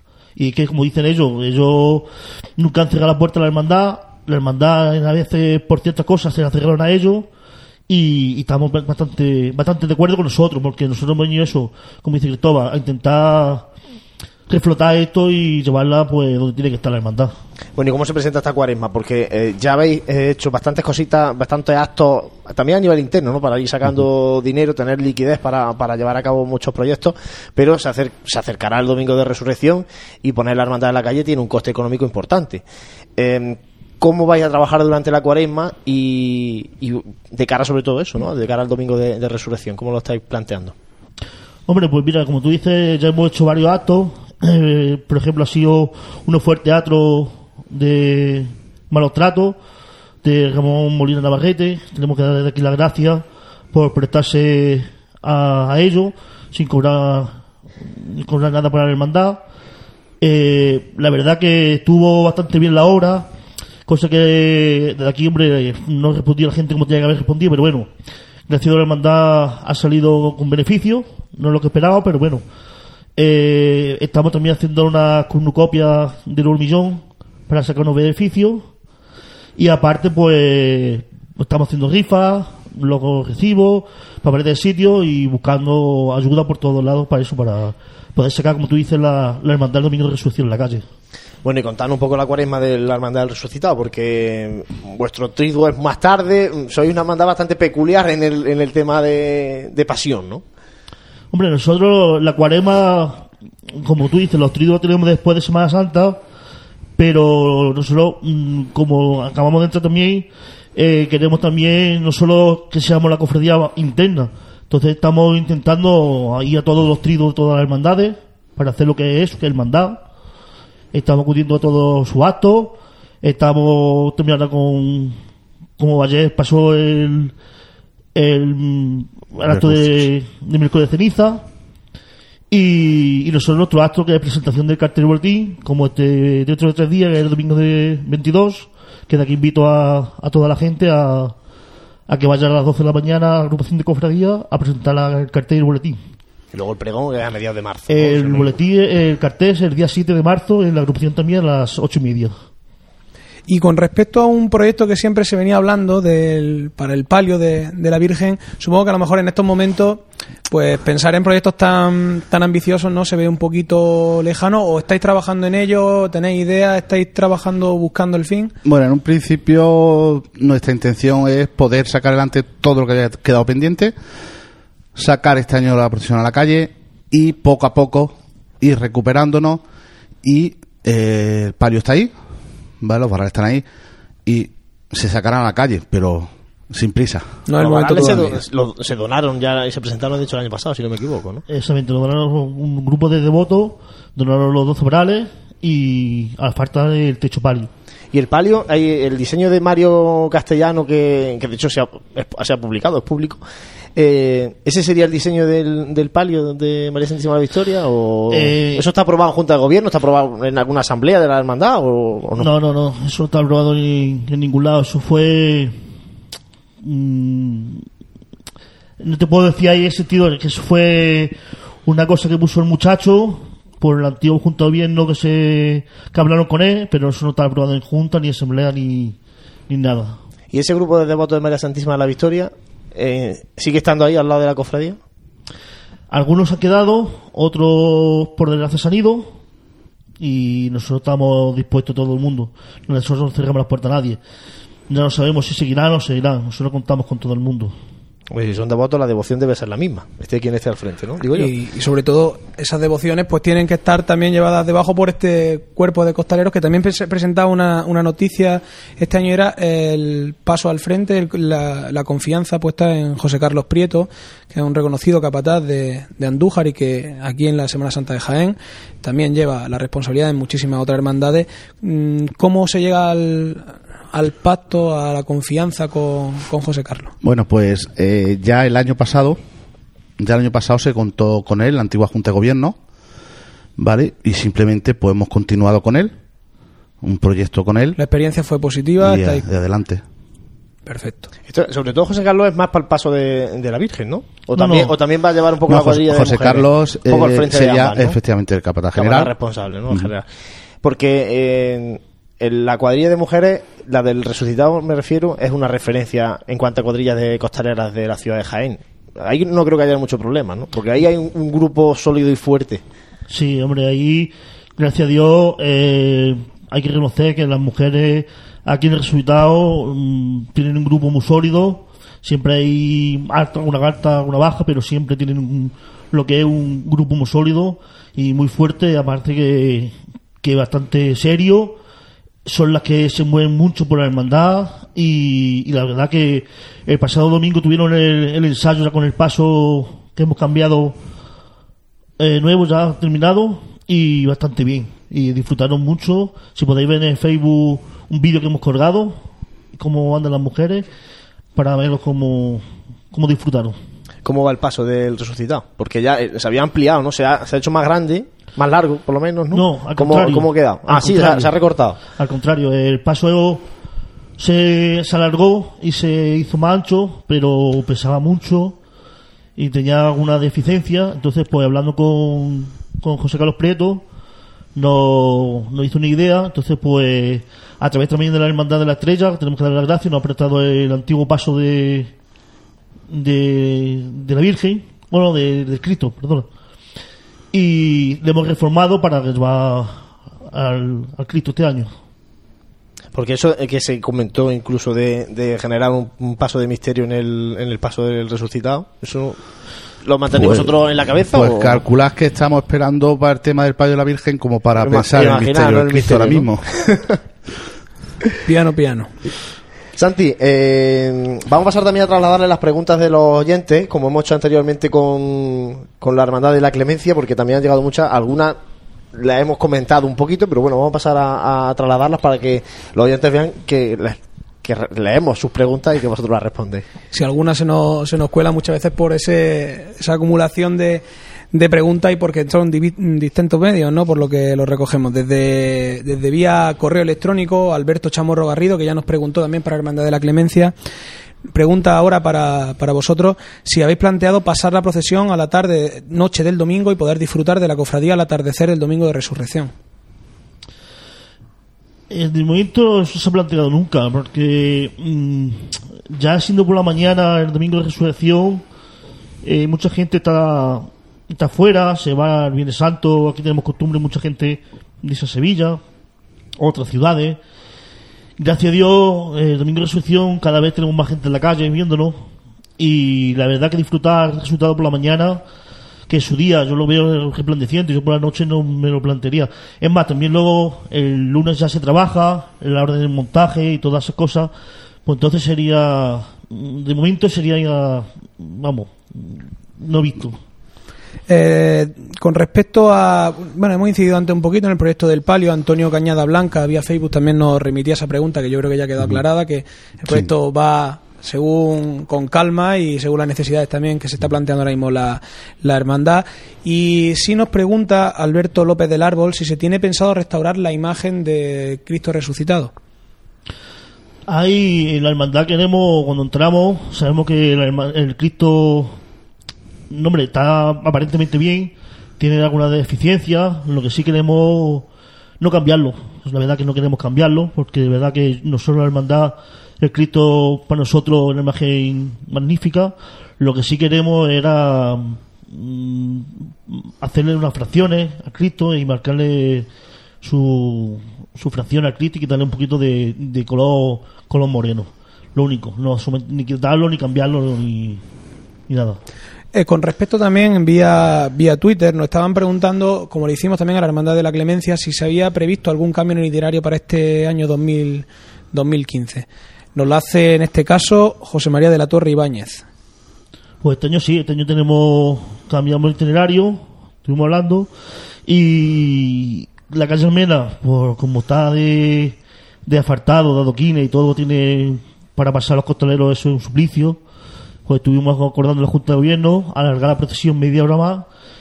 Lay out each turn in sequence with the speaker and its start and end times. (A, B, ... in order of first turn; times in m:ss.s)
0:00.4-0:07.3 A
0:07.9-0:13.7 A
0:14.5-0:17.3 A
0:17.8-0:32.6 B
0:33.2-0:40.7 B
0:41.7-0:49.6 A
0:50.2-0:59.4 A
1:00.2-1:03.3 A
1:03.9-1:07.9 A
1:08.5-1:12.4 A
1:13.2-1:18.6 A
1:19.6-1:30.8 A
1:31.4-1:40.4 B
1:41.3-1:46.2 A
1:47.0-2:00.0 A
2:00.9-2:05.2 A
2:05.8-2:07.3 A
2:08.1-2:11.4 A
2:09.5-2:10.0 C
2:12.5-2:21.3 A
2:22.1-2:26.0 A
2:26.5-2:28.5 B
2:27.9-2:32.3 A
2:33.5-2:48.5 D
2:48.6-2:53.9 C
2:54.9-2:59.6 C
3:00.2-3:02.1 C
3:02.8-3:03.6 C
3:04.2-3:07.3 C
3:07.4-3:08.4 D
3:07.6-3:11.4 B
3:11.5-3:17.7 A
3:18.1-3:23.4 B
3:24.0-3:32.5 B
3:28.3-3:28.9 A
3:32.4-3:35.8 A
3:36.8-3:37.8 A
3:39.0-3:49.2 A
3:49.7-3:50.2 A
3:50.5-3:55.0 B
3:56.1-3:59.3 A
4:00.2-4:04.2 A
4:04.9-4:07.7 A
4:08.3-4:11.5 B
4:11.4-4:37.1 D
4:37.2-4:39.4 C
4:40.2-4:42.8 C
4:43.8-4:46.1 C
4:47.0-4:48.0 C
4:48.0-4:49.4 D
4:49.0-4:50.0 C
4:50.9-4:51.3 D
4:51.5-4:58.2 B
4:55.7-4:59.3 C
4:58.9-5:00.2 B
5:00.8-5:12.8 B
5:13.3-5:31.8 A
5:32.4-5:41.0 A
5:42.2-5:49.2 A
5:49.7-5:50.9 A
5:51.5-5:53.8 A
5:54.2-6:02.0 B
5:59.5-6:01.6 A
6:02.2-6:03.6 A
6:04.4-6:08.8 A
6:09.6-6:14.0 A
6:14.8-6:22.1 A
6:23.1-6:26.5 A
6:27.5-6:31.9 A
6:33.1-6:39.4 B
6:40.0-6:41.8 B
6:40.3-6:40.7 C
6:41.3-6:46.6 C
6:44.8-6:47.2 B
6:48.4-6:49.1 D
6:49.9-6:58.6 B
6:59.1-7:06.8 B
7:07.1-7:20.7 D
7:21.5-7:29.7 D
7:32.1-7:38.6 A
7:39.4-7:45.8 A
7:46.6-7:47.4 A
7:48.4-7:52.2 A
7:52.8-7:55.4 A
7:56.1-8:04.5 A
8:05.0-8:10.4 A
8:11.3-8:32.7 D
8:34.3-8:38.9 A
8:39.9-8:44.9 A
8:45.4-8:59.7 A
9:00.2-9:08.0 A
9:08.7-9:09.0 A
9:09.5-9:22.6 D
9:23.6-9:27.7 A
9:28.2-9:37.0 A
9:37.6-9:41.0 A